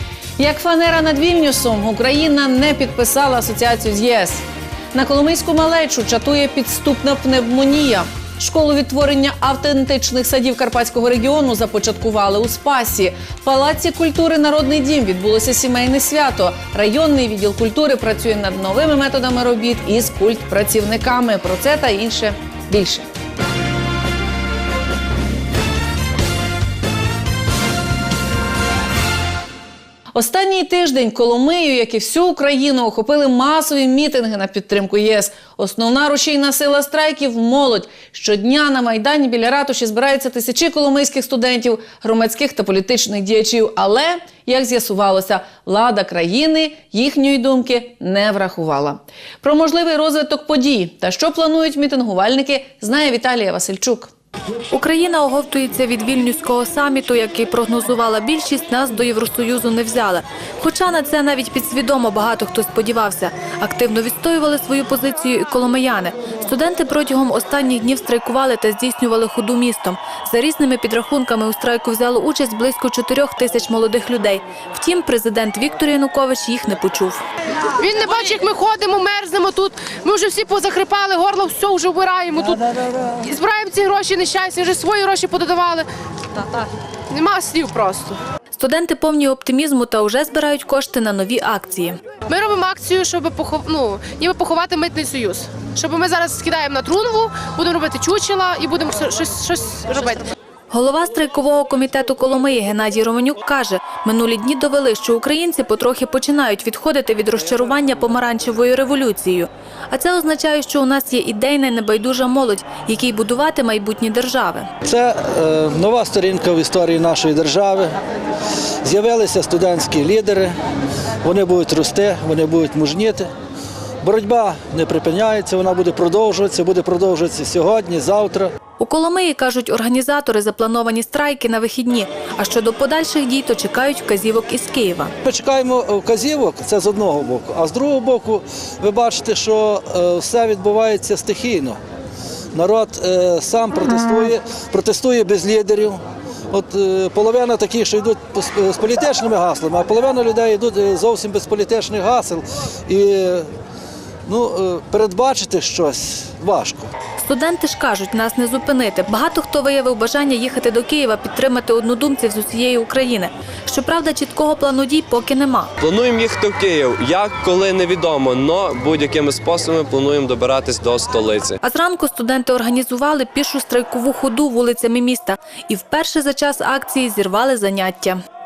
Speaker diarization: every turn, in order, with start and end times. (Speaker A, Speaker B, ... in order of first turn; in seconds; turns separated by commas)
Speaker A: 0.4-4.4, Speaker A: 4.9-23.1, Speaker A: 30.1-54.1, Speaker B: 54.7-77.2, Speaker C: 77.8-82.7, Speaker C: 83.2-85.9, Speaker C: 87.1-88.2, Speaker B: 88.6-92.0, Speaker C: 92.3-100.3, Speaker B: 100.7-114.7, Speaker D: 114.8-118.0, Speaker D: 118.8-120.5, Speaker D: 121.2-123.3, Speaker D: 124.0-128.5, Speaker B: 128.8-135.1, Speaker D: 135.2-141.8, Speaker D: 142.5-153.5, Speaker D: 154.3-156.8, Speaker B: 157.2-165.7, Speaker E: 165.8-171.6, Speaker B: 171.6-178.2